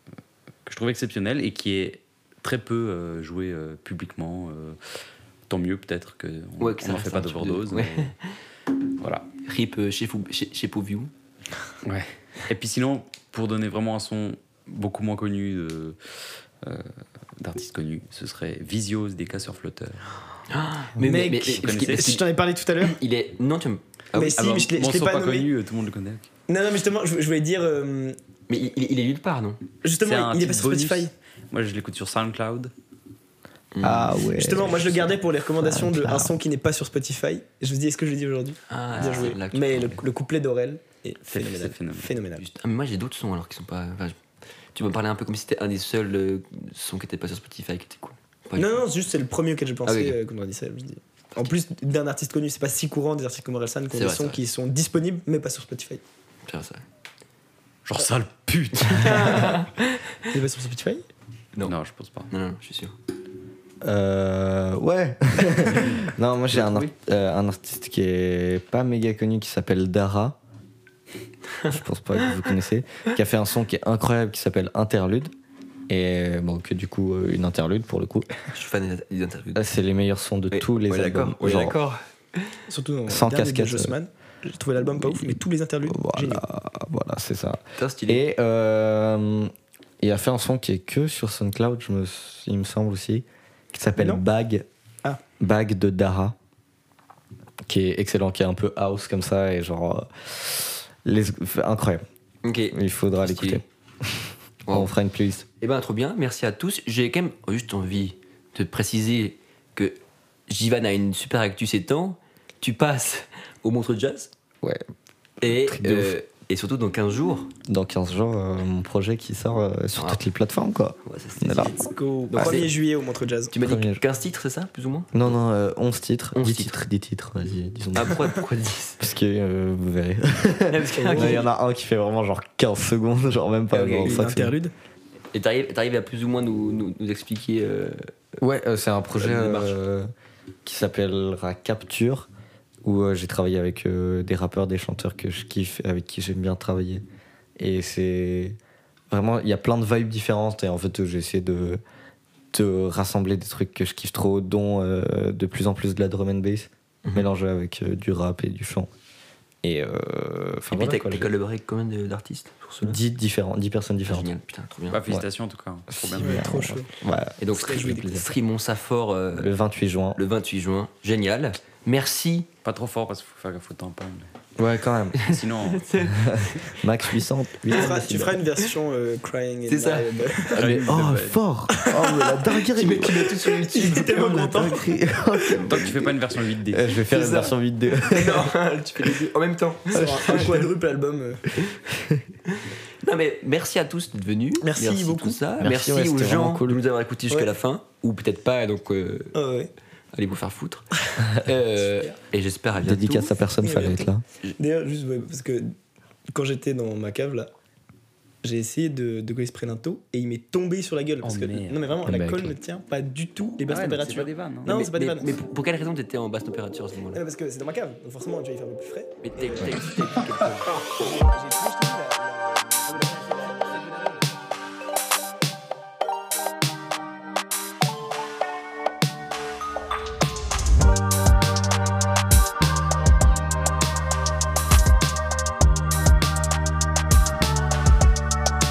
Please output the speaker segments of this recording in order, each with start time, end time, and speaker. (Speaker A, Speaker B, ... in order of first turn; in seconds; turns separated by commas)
Speaker A: 0.7-4.8, Speaker A: 5.5-8.1, Speaker B: 6.6-8.3, Speaker A: 9.0-9.3, Speaker B: 9.4-11.1, Speaker A: 11.8-16.0, Speaker A: 16.6-20.1, Speaker B: 20.5-24.7, Speaker C: 21.0-23.0, Speaker A: 21.4-22.2, Speaker C: 24.1-25.5, Speaker A: 24.7-26.3, Speaker C: 26.5-28.2, Speaker B: 28.5-29.6, Speaker C: 29.8-31.1, Speaker A: 30.0-32.7, Speaker B: 33.7-34.2, Speaker D: 33.8-35.0, Speaker C: 34.3-42.4, Speaker B: 34.7-35.1, Speaker D: 35.6-36.3, Speaker B: 38.7-40.0, Speaker A: 38.9-39.4, Speaker A: 41.3-42.1, Speaker B: 42.4-44.2, Speaker B: 44.8-48.8, Speaker C: 48.6-56.0, Speaker B: 49.9-50.2, Speaker B: 53.9-54.4, Speaker B: 56.5-56.8, Speaker A: 57.9-59.5, Speaker B: 58.8-60.0, Speaker C: 60.3-61.0, Speaker A: 61.6-62.3, Speaker B: 62.3-62.9, Speaker D: 63.8-70.4, Speaker B: 66.5-66.9, Speaker D: 71.7-75.3, Speaker D: 75.9-78.3, Speaker B: 78.5-79.6, Speaker D: 79.5-81.8, Speaker B: 80.5-82.6, Speaker C: 82.7-86.4, Speaker D: 83.1-84.0, Speaker D: 85.9-94.7, Speaker B: 87.8-88.2, Speaker D: 95.4-96.4, Speaker D: 97.7-102.0, Speaker B: 102.4-103.6, Speaker D: 102.7-105.5, Speaker B: 104.7-104.9, Speaker B: 105.6-110.0, Speaker B: 110.5-114.3, Speaker D: 115.4-116.1, Speaker B: 115.4-117.5, Speaker D: 117.7-121.8, Speaker B: 120.0-120.2, Speaker B: 121.0-122.7, Speaker C: 121.8-123.5, Speaker B: 123.5-125.4, Speaker D: 123.6-124.0, Speaker D: 125.1-128.4, Speaker B: 126.3-126.7, Speaker B: 128.0-129.0, Speaker D: 129.0-134.6, Speaker B: 130.7-131.5, Speaker C: 131.0-131.4, Speaker C: 133.7-134.7, Speaker B: 135.3-138.1, Speaker D: 138.4-140.1, Speaker B: 139.2-139.8, Speaker D: 140.7-142.3, Speaker D: 142.8-147.0, Speaker D: 147.6-148.6, Speaker D: 149.1-151.8, Speaker D: 152.5-158.9, Speaker D: 159.6-161.3, Speaker B: 160.7-163.0, Speaker D: 162.8-164.3, Speaker B: 164.0-165.0, Speaker A: 164.9-166.4, Speaker D: 165.9-168.2, Speaker C: 166.2-166.9, Speaker B: 167.4-169.5, Speaker C: 167.5-168.2, Speaker D: 169.3-170.2, Speaker B: 170.2-172.5, Speaker A: 172.7-174.3, Speaker D: 174.6-175.2, Speaker A: 175.2-175.9, Speaker B: 175.2-177.2, Speaker D: 176.1-178.4, Speaker C: 177.7-180.6, Speaker B: 179.7-181.4, Speaker D: 180.6-186.0, Speaker A: 180.6-181.1, Speaker C: 181.8-182.4, Speaker B: 182.7-184.7, Speaker C: 183.1-184.9, Speaker B: 185.4-186.1, Speaker A: 185.7-187.0, Speaker D: 186.7-188.5, Speaker B: 187.1-190.7, Speaker C: 189.9-191.5, Speaker D: 189.9-190.5, Speaker D: 191.9-192.2, Speaker B: 192.5-199.4, Speaker C: 194.6-195.4, Speaker D: 195.6-196.8, Speaker C: 199.3-199.7, Speaker B: 200.1-203.3, Speaker D: 202.8-204.2, Speaker C: 203.6-205.8, Speaker C: 206.3-207.5, Speaker C: 208.4-215.4, Speaker A: 211.2-212.0, Speaker D: 212.0-212.6, Speaker A: 213.7-214.7, Speaker B: 214.7-217.2, Speaker C: 217.1-219.8, Speaker B: 219.2-220.9, Speaker C: 221.0-224.2